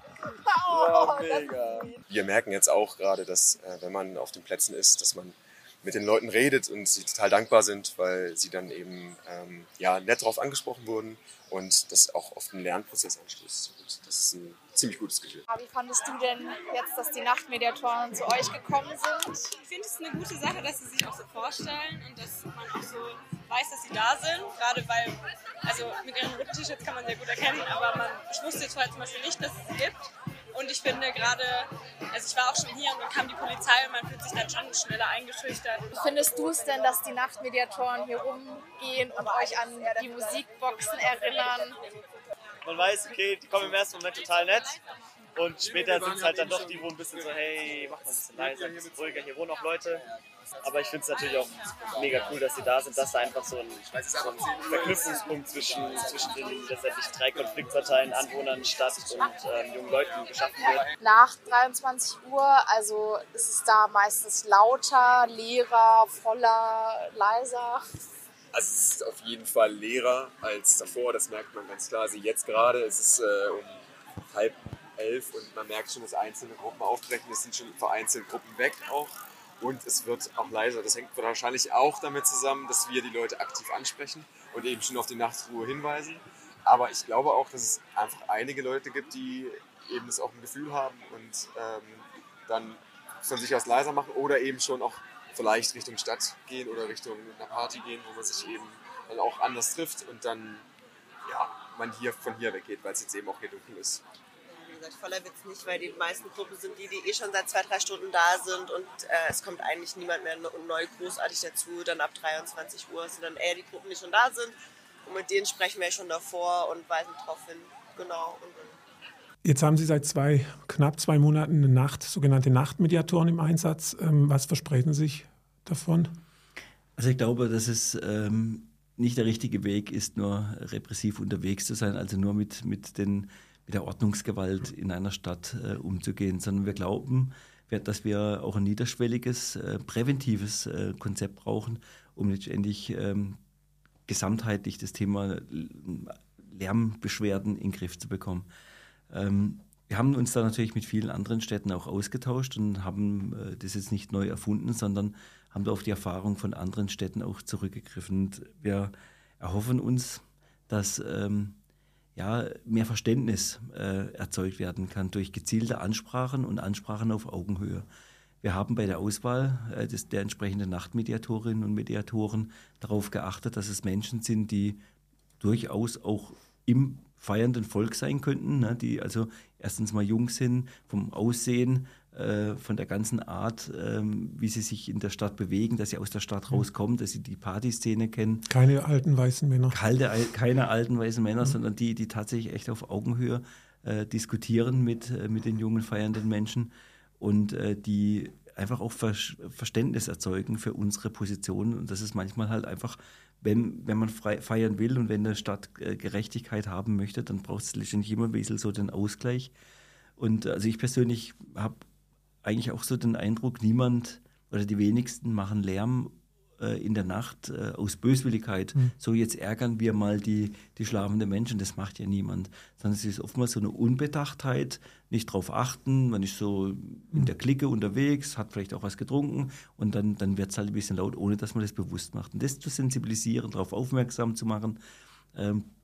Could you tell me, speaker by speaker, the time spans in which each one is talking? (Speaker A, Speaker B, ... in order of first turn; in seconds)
Speaker A: 0.5-15.4, 68.5-100.6, 101.2-104.0
Speaker B: 0.8-1.2, 15.5-19.5, 35.9-41.8, 61.0-67.8
Speaker C: 19.6-36.0
Speaker D: 42.6-44.8, 45.3-50.0, 50.6-60.9
Speaker E: 104.5-118.8
Speaker F: 119.4-126.1, 188.5-189.8
Speaker G: 127.0-143.4, 144.1-148.5, 149.1-161.6, 162.2-167.9, 168.4-174.8, 175.4-188.5, 189.7-209.5, 210.2-211.8, 212.4-234.8, 235.3-235.7